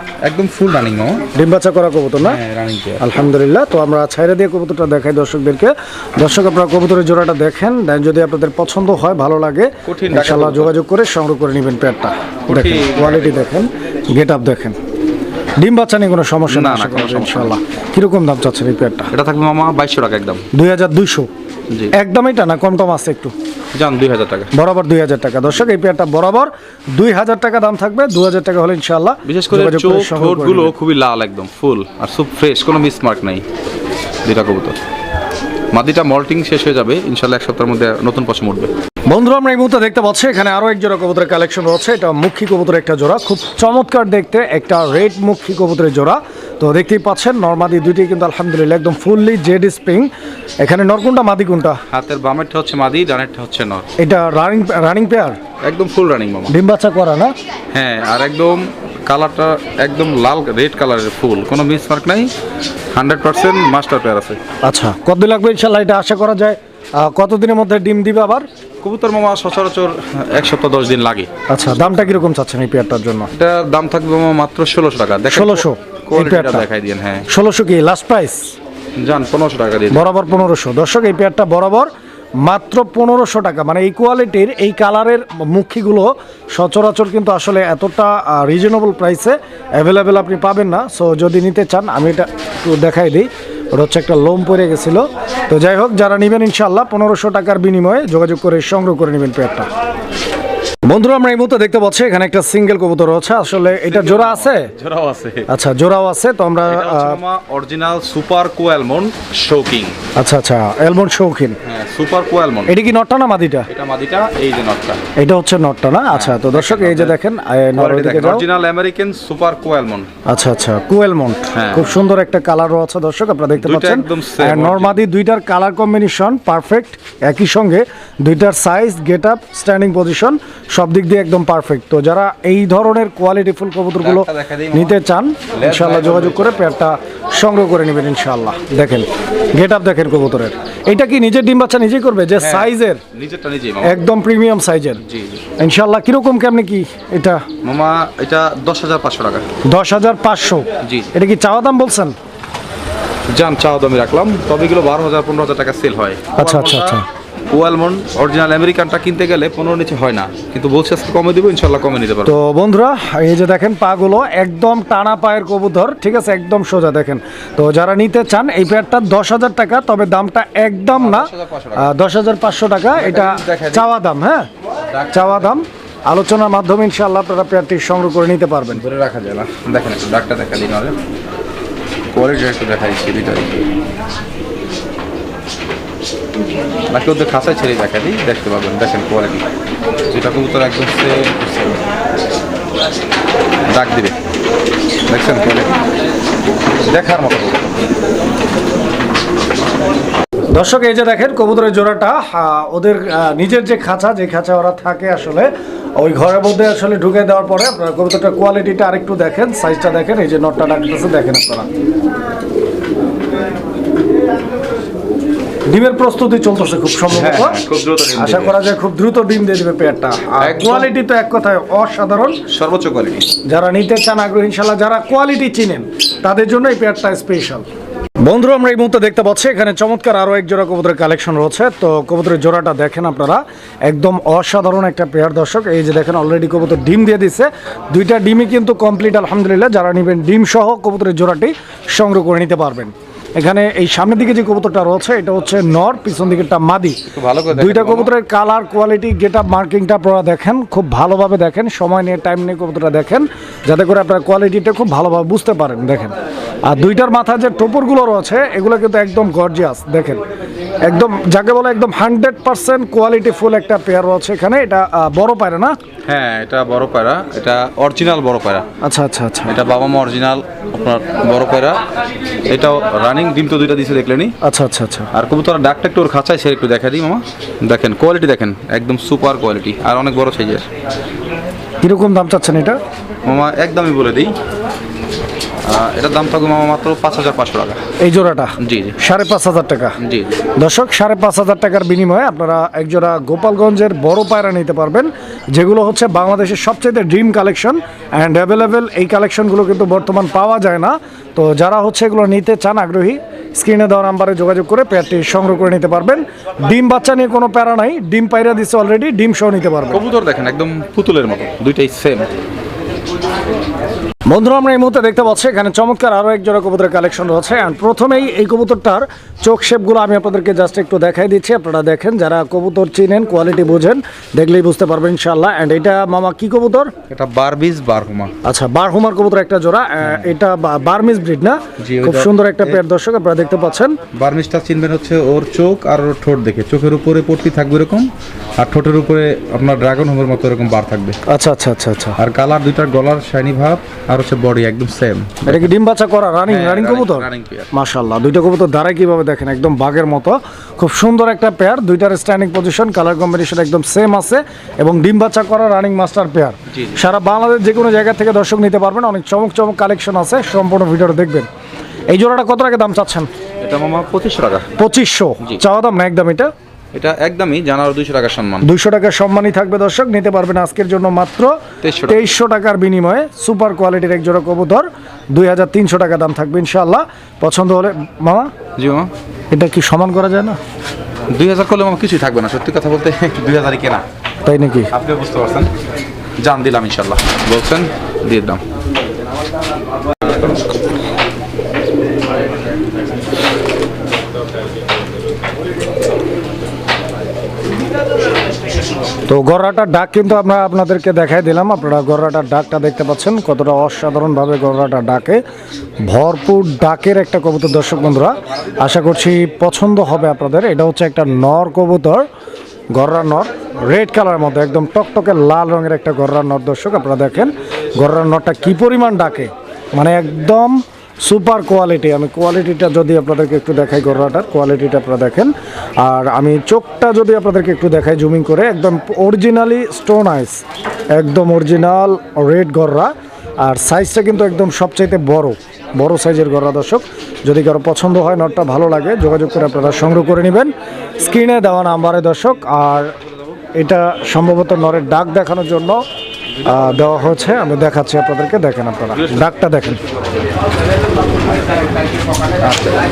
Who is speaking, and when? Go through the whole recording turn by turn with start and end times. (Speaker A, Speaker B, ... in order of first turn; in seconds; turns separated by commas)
Speaker A: 0.2-1.3, Speaker B: 1.3-2.4, Speaker A: 2.2-3.0, Speaker B: 3.0-14.8, Speaker A: 9.8-10.8, Speaker A: 12.5-13.4, Speaker B: 15.6-19.1, Speaker A: 16.5-17.5, Speaker A: 19.1-20.4, Speaker B: 20.5-21.3, Speaker B: 21.9-23.3, Speaker A: 23.8-24.5, Speaker B: 24.5-30.7, Speaker A: 29.2-33.4, Speaker A: 34.2-34.8, Speaker A: 35.7-38.7, Speaker B: 39.1-50.1, Speaker B: 50.6-51.8, Speaker A: 51.9-53.9, Speaker B: 54.0-55.4, Speaker A: 55.6-56.5, Speaker B: 56.5-57.3, Speaker A: 57.7-62.3, Speaker A: 62.9-64.4, Speaker B: 64.6-68.5, Speaker A: 68.8-72.2, Speaker B: 71.5-73.3, Speaker A: 73.3-77.2, Speaker B: 75.3-76.7, Speaker B: 77.3-78.5, Speaker A: 79.0-80.1, Speaker B: 79.9-81.9, Speaker B: 82.4-99.7, Speaker B: 100.8-104.7, Speaker A: 103.7-105.5, Speaker B: 105.5-107.2, Speaker A: 106.7-110.0, Speaker B: 110.2-111.6, Speaker A: 111.6-112.7, Speaker B: 112.7-113.7, Speaker A: 113.7-115.0, Speaker B: 115.2-118.5, Speaker A: 116.1-117.2, Speaker A: 117.8-120.1, Speaker B: 120.2-143.0, Speaker A: 121.5-121.9, Speaker A: 123.6-125.0, Speaker A: 134.0-135.0, Speaker A: 135.5-136.6, Speaker A: 142.4-143.9, Speaker B: 143.8-145.0, Speaker A: 145.0-145.4, Speaker B: 145.6-147.4, Speaker A: 147.6-149.4, Speaker B: 149.6-152.1, Speaker A: 150.8-151.1, Speaker A: 153.3-157.0, Speaker B: 156.3-157.0, Speaker A: 157.5-162.3, Speaker B: 162.2-174.5, Speaker A: 170.9-171.9, Speaker A: 172.9-173.8, Speaker A: 174.9-175.6, Speaker B: 175.1-178.8, Speaker A: 178.7-180.9, Speaker A: 182.1-183.6, Speaker A: 186.9-189.4, Speaker A: 190.1-191.8, Speaker A: 193.7-194.1, Speaker A: 195.1-195.8, Speaker A: 196.9-197.6, Speaker B: 200.5-211.7, Speaker B: 215.7-217.6, Speaker A: 217.1-218.7, Speaker B: 218.2-222.4, Speaker A: 220.4-220.9, Speaker A: 222.5-223.3, Speaker B: 223.4-227.7, Speaker B: 228.2-256.1, Speaker A: 247.1-248.1, Speaker B: 256.6-260.2, Speaker B: 260.8-265.8, Speaker A: 266.1-268.6, Speaker B: 268.8-269.5, Speaker A: 269.4-271.8, Speaker A: 272.5-274.3, Speaker B: 274.4-275.1, Speaker A: 275.1-280.6, Speaker B: 281.8-282.8, Speaker A: 283.2-284.3, Speaker A: 285.6-287.8, Speaker B: 288.0-290.0, Speaker A: 288.6-289.0, Speaker A: 290.0-290.4, Speaker B: 290.6-310.0, Speaker A: 309.9-312.3, Speaker B: 314.3-326.9, Speaker A: 327.1-328.3, Speaker B: 328.4-334.0, Speaker A: 331.8-332.8, Speaker A: 334.1-341.2, Speaker B: 341.3-342.2, Speaker A: 342.2-345.7, Speaker B: 345.4-361.5, Speaker A: 346.5-347.7, Speaker A: 356.7-357.0, Speaker B: 362.1-363.3, Speaker A: 363.6-364.7, Speaker B: 364.8-366.5, Speaker A: 366.9-368.7, Speaker B: 368.6-378.5, Speaker A: 371.8-372.3, Speaker A: 378.8-379.1, Speaker B: 379.5-380.6, Speaker A: 381.3-384.0, Speaker B: 384.4-384.9, Speaker A: 384.9-385.7, Speaker A: 386.4-388.6, Speaker B: 399.3-405.4, Speaker B: 406.0-412.2, Speaker B: 412.9-430.6, Speaker B: 431.1-443.1, Speaker B: 443.8-446.0, Speaker B: 446.6-450.0, Speaker A: 449.1-449.4